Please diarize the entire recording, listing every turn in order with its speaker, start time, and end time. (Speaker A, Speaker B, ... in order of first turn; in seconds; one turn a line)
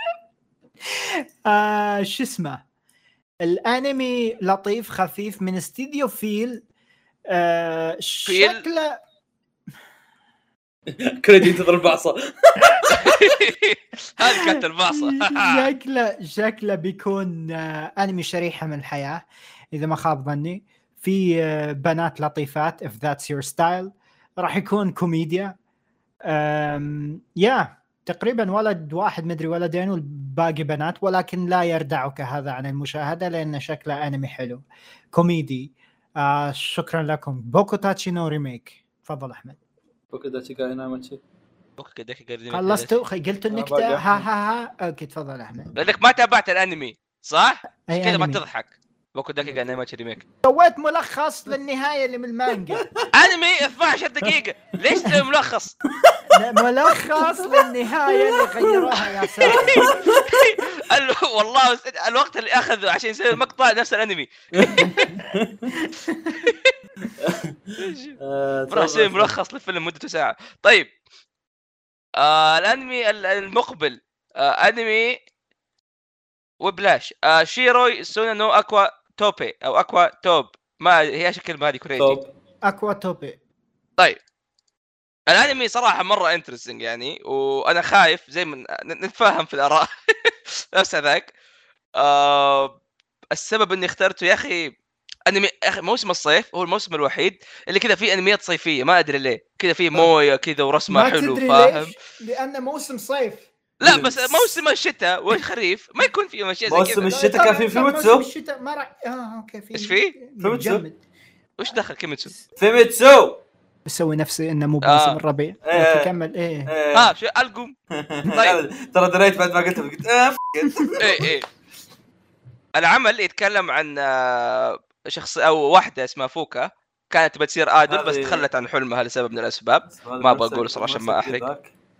Speaker A: 0.8-2.6
Speaker A: 3.4-6.6
Speaker A: 7.3-9.0
Speaker B: 8.3-8.6
Speaker C: 10.9-12.9
Speaker A: 12.7-13.3
Speaker B: 12.9-15.7
Speaker A: 14.2-25.6
Speaker A: 26.3-39.6
Speaker C: 40.1-41.2
Speaker B: 41.8-42.9
Speaker A: 42.5-45.7
Speaker C: 43.5-44.2
Speaker B: 45.8-50.2
Speaker A: 47.9-48.4
Speaker C: 49.4-49.8
Speaker A: 50.4-52.9
Speaker C: 52.7-53.1
Speaker B: 53.1-55.8
Speaker A: 56.3-59.9
Speaker C: 57.0-60.4
Speaker B: 59.5-64.9
Speaker C: 64.5-65.7
Speaker A: 64.8-65.2
Speaker A: 65.8-66.5
Speaker B: 66.4-66.8
Speaker C: 67.1-69.3
Speaker B: 67.8-68.2
Speaker B: 68.7-70.9
Speaker B: 72.2-75.2
Speaker B: 76.6-82.2
Speaker C: 82.0-82.3
Speaker A: 82.7-83.4
Speaker B: 85.3-91.3
Speaker B: 92.0-92.7
Speaker B: 93.3-94.8
Speaker B: 95.3-101.9
Speaker A: 100.9-103.5
Speaker B: 103.8-107.1
Speaker C: 103.8-104.3
Speaker C: 106.7-108.3
Speaker A: 107.1-111.0
Speaker B: 109.8-110.2
Speaker C: 110.4-110.8
Speaker B: 111.6-112.3
Speaker C: 112.6-113.4
Speaker A: 113.9-116.7
Speaker B: 114.8-115.2
Speaker C: 115.7-116.1
Speaker C: 116.7-117.1
Speaker B: 116.9-118.6
Speaker C: 118.0-121.3
Speaker B: 121.0-121.5
Speaker B: 122.8-131.4
Speaker C: 127.9-128.4
Speaker C: 129.9-131.7